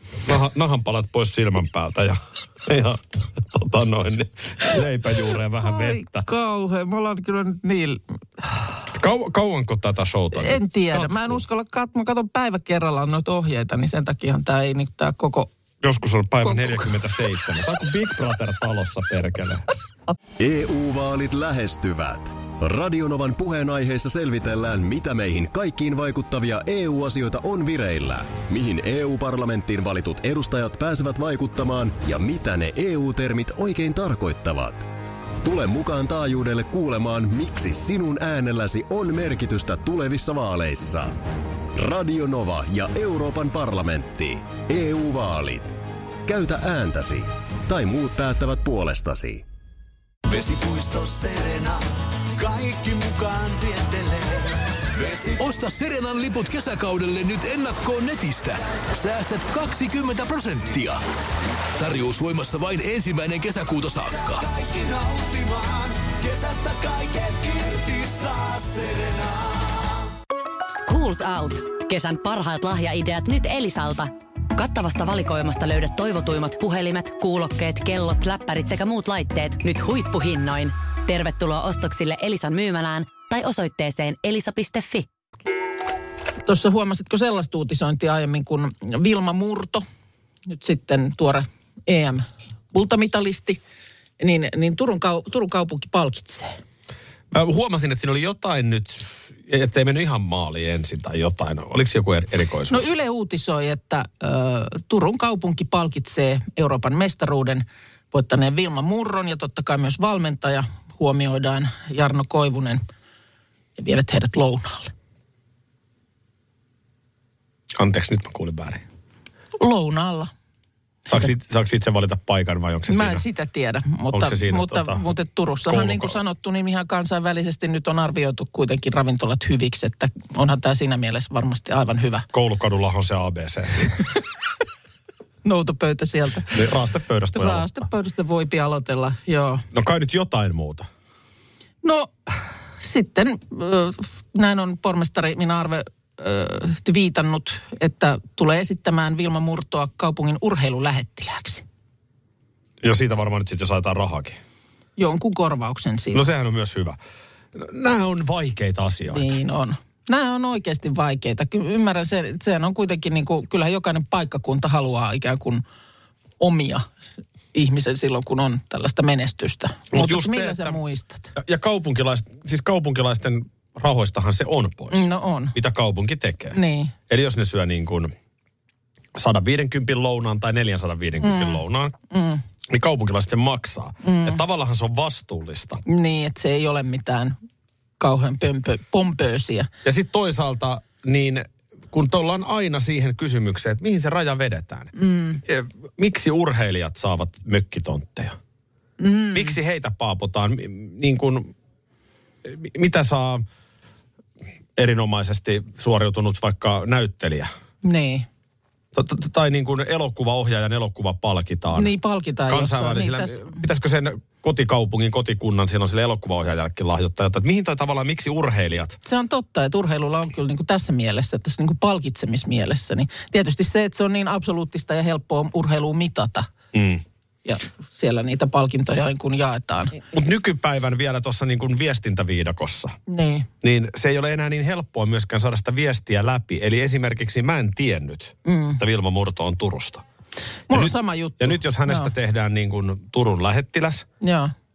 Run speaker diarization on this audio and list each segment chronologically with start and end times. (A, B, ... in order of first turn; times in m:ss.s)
0:00.2-0:06.3 A
0:05.6-0:08.6 B
0:08.9-0:11.4 A
0:10.3-0:15.5 B
0:15.8-0:19.6 A
0:16.4-0:16.9 B
0:20.4-0:34.9 C
0:35.4-0:41.2 C
0:41.8-0:49.4 C
0:50.3-0:55.4 D
0:55.4-1:01.0 E
1:01.8-1:04.4 E
1:04.1-1:10.1 D
1:10.7-1:25.1 F
1:26.4-1:29.8 B
1:30.5-1:33.6 B
1:34.2-1:36.5 B
1:37.3-1:42.9 A
1:42.7-1:52.8 B
1:53.8-1:54.9 B
1:57.8-1:58.8 A
1:59.6-2:00.3 B
2:01.1-2:03.2 A
2:02.9-2:12.3 B
2:04.1-2:05.0 A
2:05.7-2:06.2 A
2:12.3-2:14.0 A
2:15.4-2:16.6 B
2:16.5-2:17.8 A
2:17.3-2:19.6 B
2:19.7-2:20.9 A
2:21.8-2:31.6 B
2:32.8-2:34.4 A
2:35.0-2:36.3 B
2:36.1-2:37.0 A
2:37.5-2:39.4 A
2:39.1-2:45.6 B
2:46.4-2:46.9 B
2:47.5-2:51.3 B
2:49.9-2:50.8 A
2:51.4-2:56.6 A
2:54.9-2:55.6 B
2:56.5-2:56.9 B
2:57.1-2:58.1 A
2:59.2-3:02.0 A
3:01.2-3:02.4 B
3:02.7-3:05.8 A
3:04.0-3:04.4 B
3:05.9-3:07.4 B
3:08.0-3:09.7 B
3:09.8-3:14.9 A
3:15.0-3:15.4 B
3:15.4-3:18.4 A
3:19.0-3:19.6 B
3:19.3-3:21.5 A
3:22.4-3:23.4 A
3:24.8-3:27.5 A
3:27.8-3:28.3 B
3:28.9-3:31.9 A
3:31.7-3:33.6 B
3:32.5-3:39.0 A
3:39.0-3:46.5 B
3:46.7-3:47.0 A
3:47.4-3:50.0 B
3:50.0-3:53.0 A
3:53.1-3:53.5 B
3:53.6-4:00.0 A
3:58.4-3:58.8 B
4:00.7-4:02.1 B
4:00.7-4:04.1 A
4:04.2-4:04.5 B